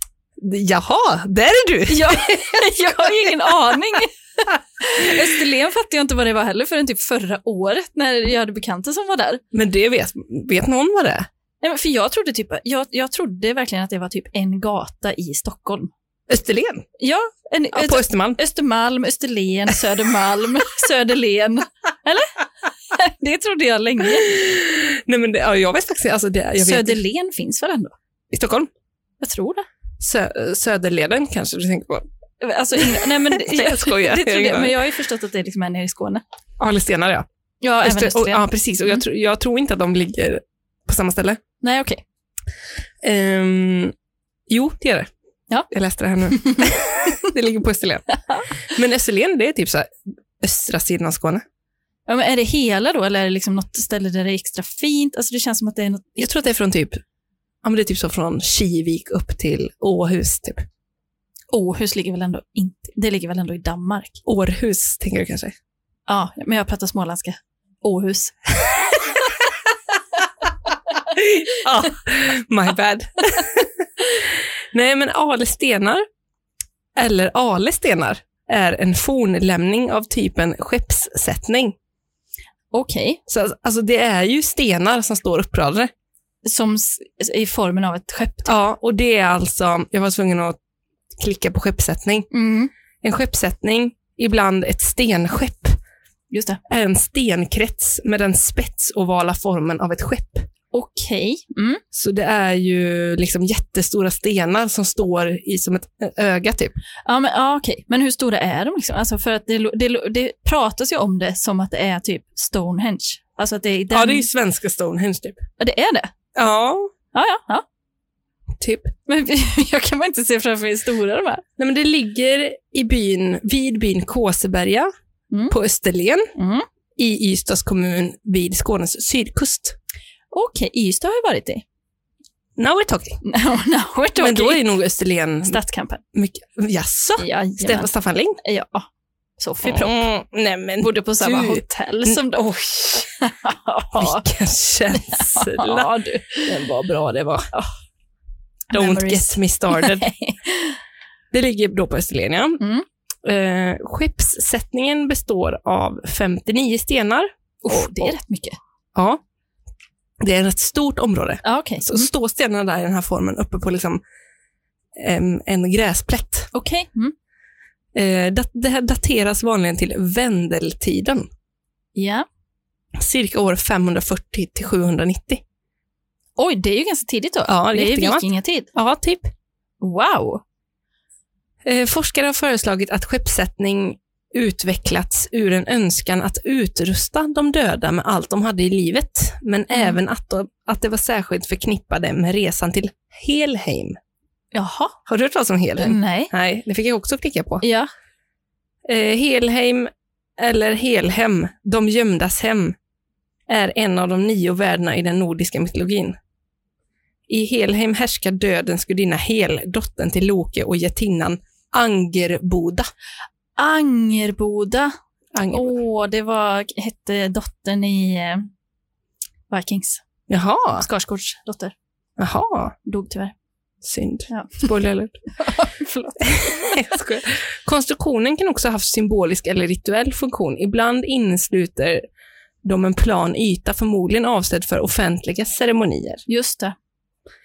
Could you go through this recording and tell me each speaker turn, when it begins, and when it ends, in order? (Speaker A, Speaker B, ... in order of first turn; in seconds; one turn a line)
Speaker A: 0.4-3.1
Speaker B: 1.9-4.1
Speaker B: 4.8-9.4
Speaker A: 9.5-11.3
Speaker B: 11.6-15.9
Speaker A: 16.3-16.9
Speaker B: 17.0-22.4
Speaker A: 17.7-18.4
Speaker B: 22.9-24.4
Speaker A: 24.2-27.0
Speaker B: 26.6-27.9
Speaker A: 28.3-28.7
Speaker B: 29.2-29.7
Speaker A: 30.0-32.1
Speaker B: 32.4-36.2
Speaker A: 32.8-34.8
Speaker A: 36.6-37.2
Speaker B: 37.6-38.4
Speaker A: 37.8-41.4
Speaker B: 41.6-42.0
Speaker A: 43.0-43.9
Speaker A: 44.5-45.1
Speaker A: 45.7-48.1
Speaker B: 46.3-46.7
Speaker B: 48.1-48.5
Speaker A: 48.7-51.4
Speaker B: 52.1-56.2
Speaker A: 56.2-57.0
Speaker A: 57.6-60.6
Speaker B: 61.5-64.2
Speaker A: 64.2-65.5
Speaker B: 66.1-68.4
Speaker A: 71.1-76.0
Speaker A: 76.9-81.8
Speaker B: 82.7-83.2
Speaker A: 83.3-85.9
Speaker B: 86.4-88.5
Speaker A: 88.5-90.6
Speaker A: 91.2-92.3
Speaker B: 92.3-92.7
Speaker A: 93.0-95.8
Speaker B: 96.3-96.6
Speaker A: 96.7-100.5
Speaker B: 100.7-101.8
Speaker A: 101.9-106.8
Speaker B: 107.1-114.2
Speaker A: 113.9-115.4
Speaker B: 115.6-116.1
Speaker A: 116.3-116.9
Speaker B: 117.1-117.7
Speaker A: 118.6-118.9
Speaker B: 119.1-121.4
Speaker A: 121.6-124.9
Speaker A: 125.5-126.3
Speaker B: 126.4-126.7
Speaker A: 127.0-129.8
Speaker B: 130.3-131.6
Speaker A: 132.6-133.2
Speaker B: 133.2-134.7
Speaker A: 134.2-135.6
Speaker B: 135.4-136.0
Speaker A: 136.2-138.4
Speaker B: 137.2-137.9
Speaker B: 138.4-138.9
Speaker B: 139.4-140.1
Speaker A: 139.6-143.1
Speaker B: 140.8-142.4
Speaker B: 143.0-144.3
Speaker A: 143.9-145.9
Speaker B: 144.9-146.6
Speaker A: 146.4-147.5
Speaker B: 148.7-150.8
Speaker A: 148.7-150.1
Speaker A: 151.3-152.6
Speaker B: 152.6-152.8
Speaker A: 153.2-158.2
Speaker B: 157.6-158.6
Speaker A: 158.9-159.2
Speaker A: 160.2-164.0
Speaker B: 161.4-162.1
Speaker A: 164.9-166.5
Speaker B: 166.5-167.2
Speaker A: 167.9-171.3
Speaker B: 171.9-172.2
Speaker A: 173.0-175.4
Speaker B: 176.4-178.7
Speaker A: 177.5-179.3
Speaker B: 179.8-180.4
Speaker A: 181.6-194.0
Speaker B: 189.7-190.0
Speaker B: 194.5-194.9
Speaker A: 195.1-197.6
Speaker B: 195.8-196.3
Speaker B: 197.6-197.9
Speaker A: 198.9-202.8
Speaker A: 203.5-206.2
Speaker A: 207.3-212.9
Speaker B: 213.6-214.9
Speaker A: 215.3-215.8
Speaker B: 215.5-218.5
Speaker B: 219.5-220.0
Speaker A: 220.3-220.9
Speaker B: 220.7-221.8
Speaker A: 222.2-222.7
Speaker B: 222.8-223.3
Speaker A: 223.8-225.2
Speaker B: 224.3-224.7
Speaker B: 225.3-226.9
Speaker A: 226.2-232.0
Speaker A: 232.6-236.2
Speaker B: 236.3-236.8